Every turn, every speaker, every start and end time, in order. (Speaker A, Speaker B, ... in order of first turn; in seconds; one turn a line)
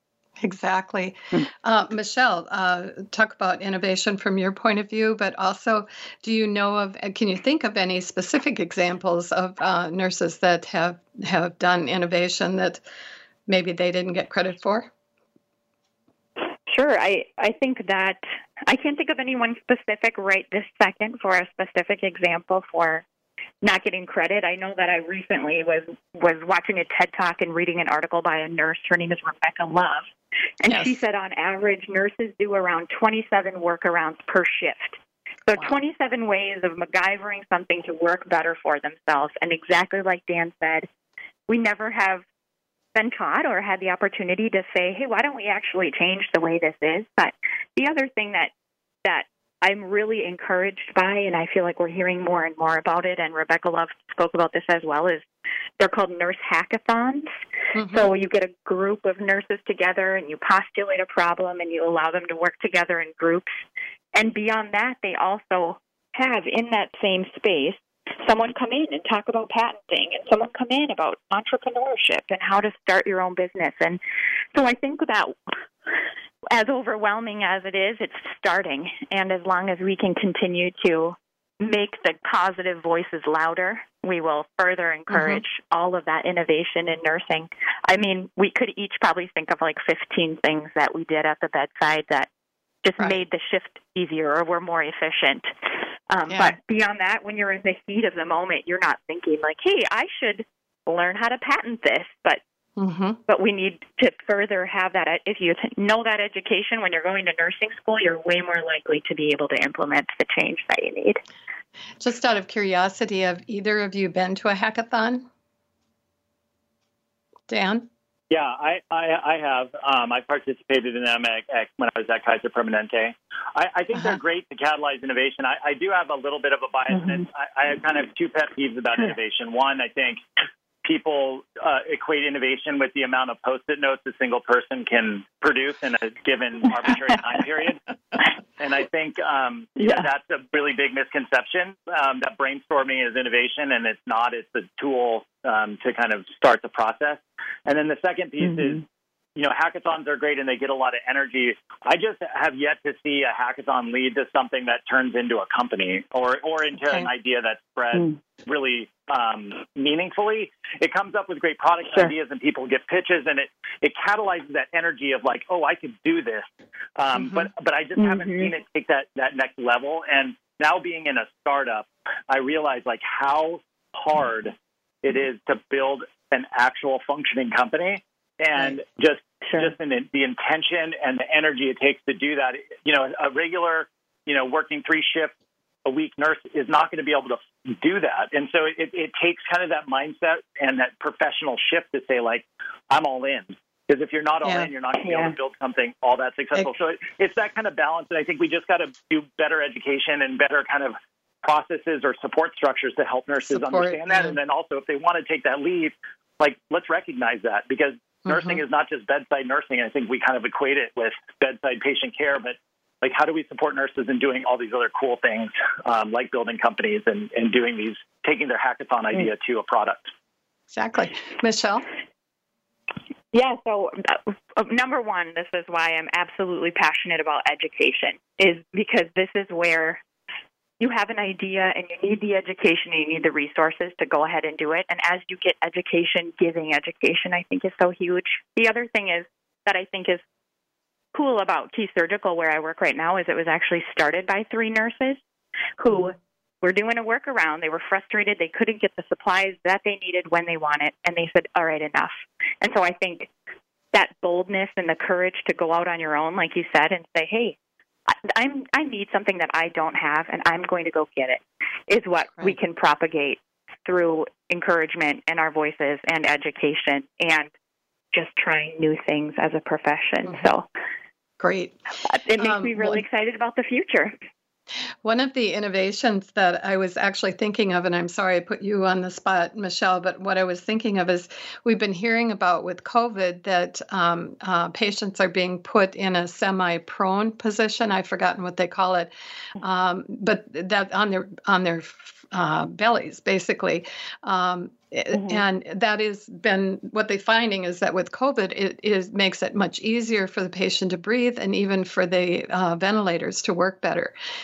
Speaker A: 0.4-12.8
Speaker A: 13.5-14.9
Speaker B: 16.7-23.1
Speaker B: 23.6-30.1
Speaker B: 30.6-40.9
Speaker A: 30.7-30.9
Speaker B: 41.5-42.2
Speaker B: 42.9-48.5
Speaker B: 49.0-55.2
Speaker B: 55.8-57.3
Speaker A: 57.8-58.1
Speaker B: 57.9-63.6
Speaker B: 64.1-74.0
Speaker B: 74.5-75.3
Speaker B: 76.5-92.3
Speaker A: 85.1-85.4
Speaker B: 92.8-95.5
Speaker B: 96.1-102.4
Speaker A: 96.3-96.6
Speaker A: 102.8-103.2
Speaker B: 103.3-111.2
Speaker A: 112.0-115.3
Speaker A: 117.5-117.9
Speaker C: 118.3-130.2
Speaker C: 130.8-137.8
Speaker C: 138.6-148.8
Speaker C: 149.4-185.3
Speaker A: 167.2-167.5
Speaker B: 168.0-168.5
Speaker C: 185.8-220.1
Speaker B: 195.1-195.3
Speaker A: 203.5-204.4
Speaker A: 208.3-208.6
Speaker A: 220.7-221.9
Speaker B: 223.3-230.0
Speaker B: 230.8-240.2
Speaker B: 241.1-245.2
Speaker B: 245.8-253.3
Speaker B: 253.9-257.6
Speaker B: 258.1-267.5
Speaker B: 268.1-270.7
Speaker A: 271.4-271.8
Speaker B: 272.1-274.1
Speaker A: 272.4-273.0
Speaker A: 275.0-304.1